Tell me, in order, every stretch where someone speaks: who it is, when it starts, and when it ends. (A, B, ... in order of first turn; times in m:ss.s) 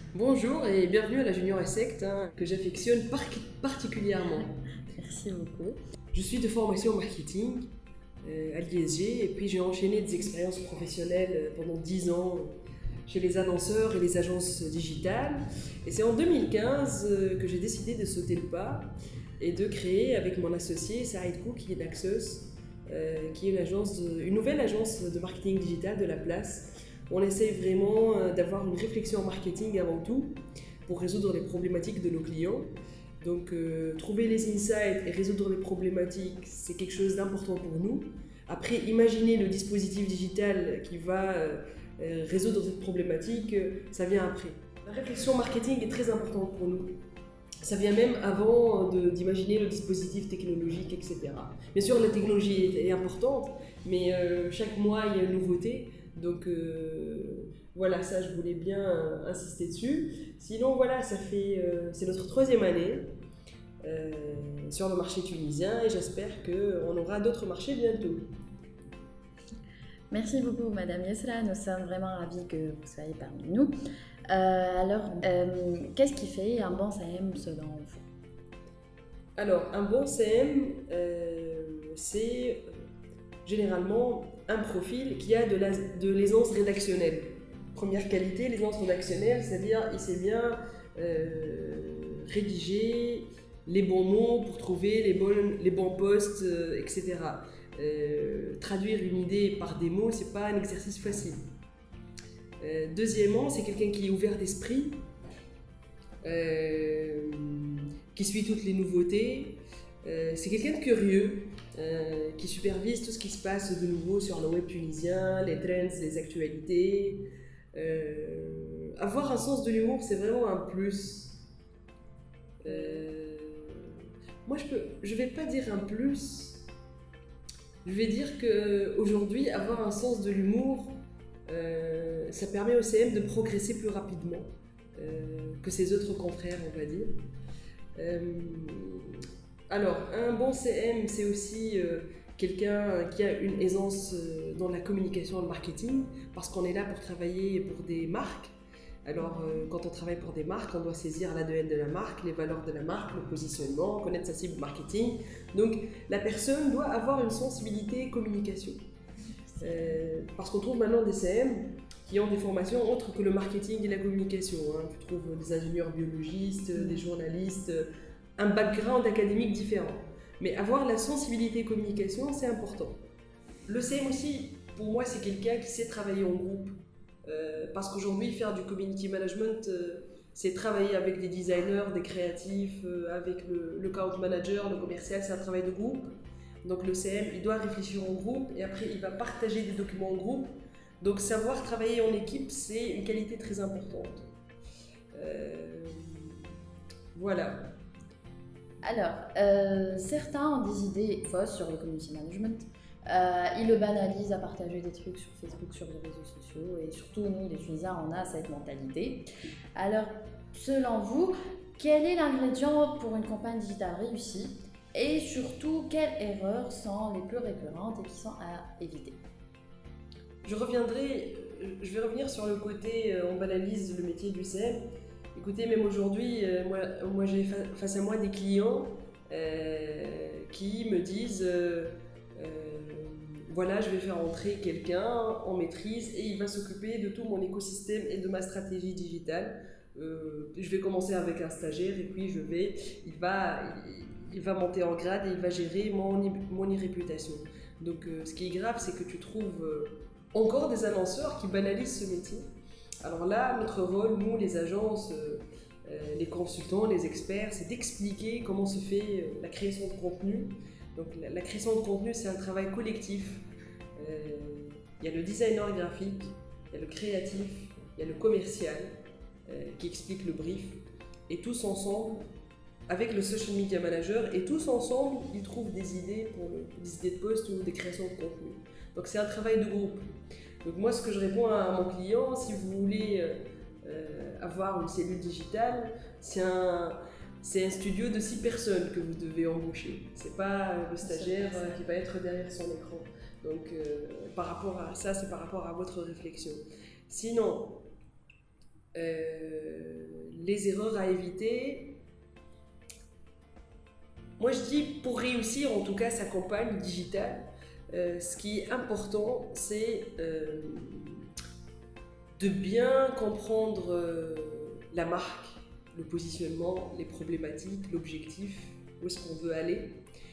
0:00.1-0:04.6 A
0:05.0-0:05.8 B
0:06.1-0:07.7 A
0:08.2-0:12.6 A
0:13.1-0:47.0 A
0:47.6-1:03.1 A
1:03.8-1:08.3 A
1:10.1-1:13.7 B
1:14.3-1:18.1 B
1:19.4-1:22.7 A
1:23.4-1:41.4 A
1:42.6-1:45.1 A
1:46.2-2:01.5 A
2:02.6-2:06.7 A
2:02.7-2:03.0 B
2:07.8-2:17.2 A
2:18.0-2:28.6 A
2:29.1-2:38.8 A
2:29.2-2:29.7 B
2:39.6-2:53.0 A
2:39.6-2:40.0 B
2:46.8-2:47.0 B
2:53.7-3:06.1 A
3:06.6-3:14.3 A
3:15.1-3:16.4 A
3:17.2-3:17.7 A
3:18.8-3:39.2 B
3:40.4-3:44.8 A
3:45.4-4:12.5 A
4:13.0-4:23.4 A
4:24.0-4:29.0 A
4:29.5-4:32.3 A
4:32.9-4:40.1 A
4:40.6-4:57.9 A
4:51.0-4:51.8 B
4:59.0-5:02.0 A
5:04.4-5:11.3 A
5:12.4-5:20.0 A